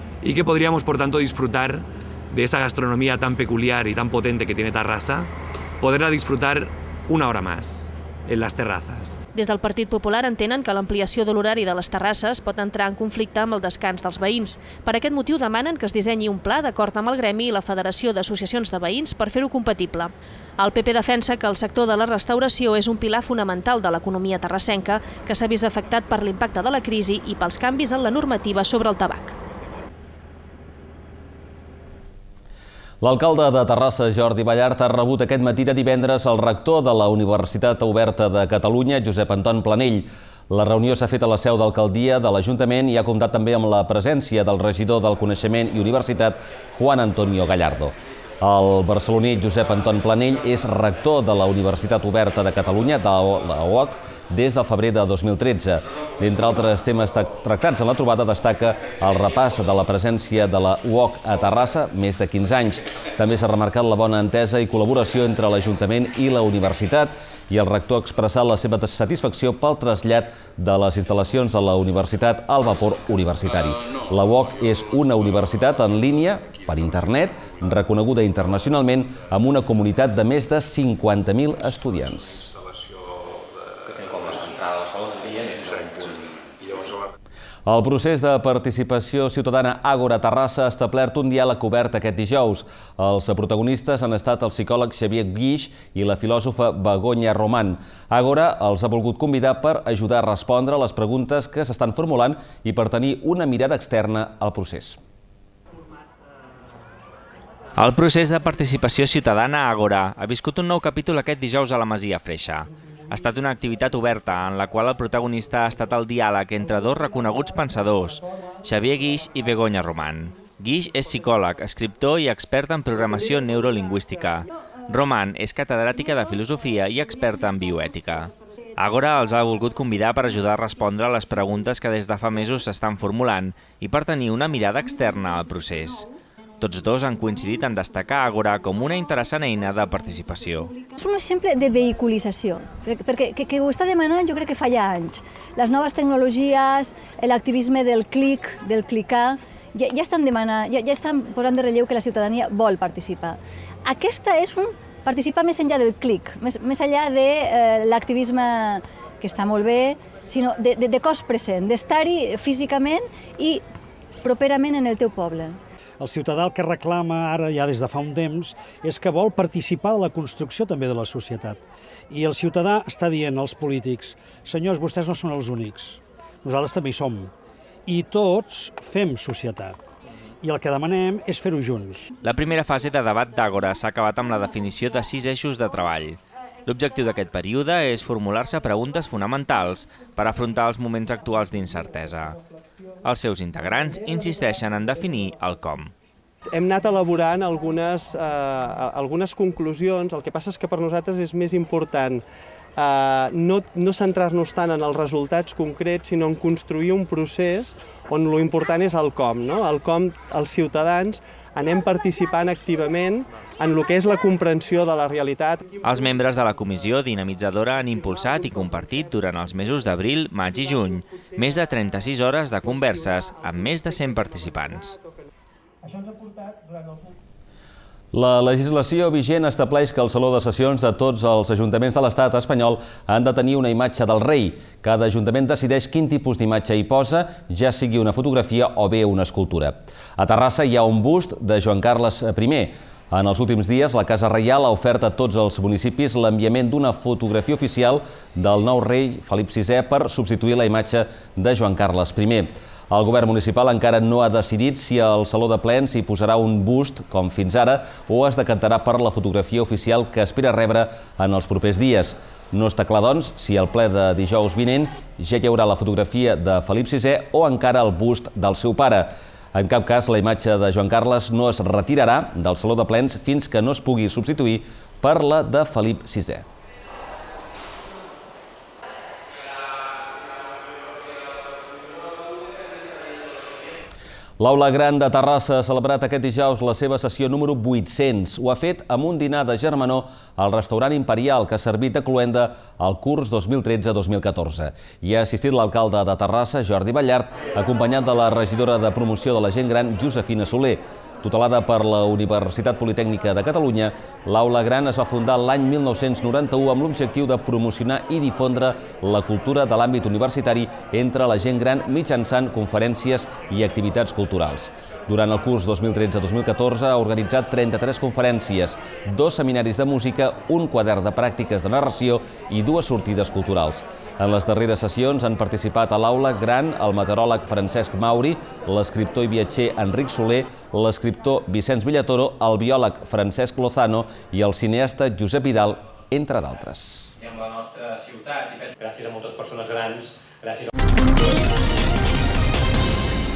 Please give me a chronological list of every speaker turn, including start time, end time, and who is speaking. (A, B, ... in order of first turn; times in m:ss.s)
0:00.2-0:05.3 A
0:05.8-0:09.2 A
0:09.3-0:29.3 B
0:33.0-1:22.5 C
1:25.2-1:25.4 D
1:27.6-1:45.0 C
1:47.8-2:16.1 E
2:16.6-2:20.7 E
2:21.0-2:43.6 F
2:44.2-2:45.6 F
2:46.0-2:57.3 G
2:57.8-2:59.8 G
3:00.4-3:02.1 G
3:02.2-3:12.4 E
3:13.0-3:15.9 E
3:16.5-3:22.2 H
3:22.8-3:35.6 H
3:35.8-3:45.0 E
3:48.1-4:36.4 C
4:44.4-5:37.1 C
5:37.2-5:40.7 D